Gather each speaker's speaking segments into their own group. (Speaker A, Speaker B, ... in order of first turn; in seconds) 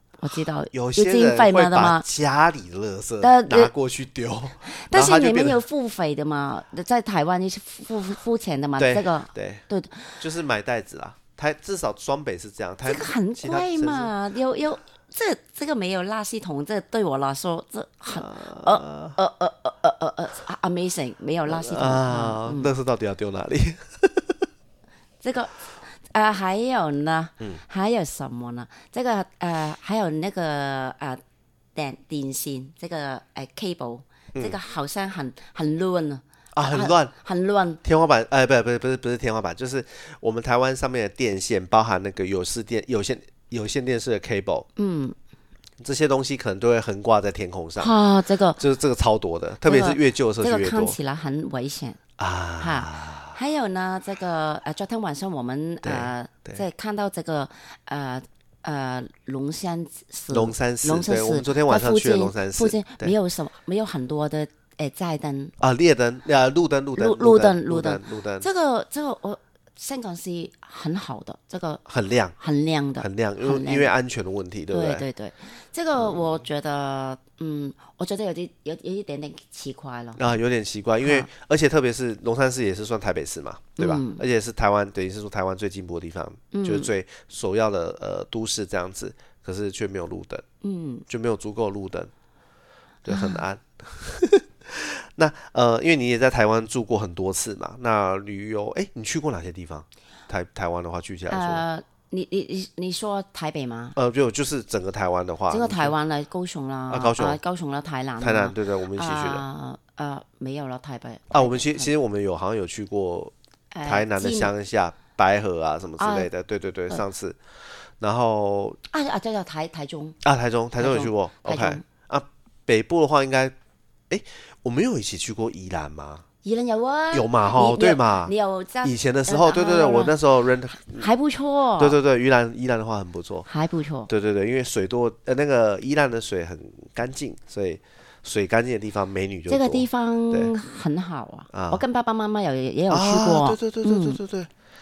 Speaker A: 0.2-2.1, 3.2-3.7, 4.6-10.2, 12.8-22.7, 25.2-31.2, 31.8-37.8, 44.8-45.2, 47.8-48.6, 49.7-52.0, 52.6-65.5, 67.0-71.8, 72.4-73.9, 74.7-80.2, 81.0-81.3, 83.8-84.2, 86.5-86.9, 90.6-91.1, 93.1-93.4, 101.3-104.0, 105.5-111.9, 113.7-114.5, 116.0-116.3, 118.9-120.2, 120.8-121.8, 126.4-130.2, 130.8-132.0, 133.5-134.1, 139.5-144.2
Speaker B: 0.7-5.6, 8.8-9.6, 10.2-14.1, 18.1-19.2, 21.5-24.5, 36.5-37.1, 37.8-44.7, 45.8-47.9, 48.6-51.0, 52.2-53.4, 55.8-56.6, 60.3-63.1, 65.6-68.5, 71.8-72.4, 73.0-75.1, 76.0-76.2, 80.2-90.5, 91.1-92.1, 93.0-101.6, 104.0-106.0, 106.9-107.4, 108.2-109.5, 111.3-113.3, 113.8-117.4, 118.0-118.8, 120.2-123.5, 124.1-126.2, 127.1-131.1, 131.8-133.5, 134.1-140.5, 141.5-141.8, 142.9-144.5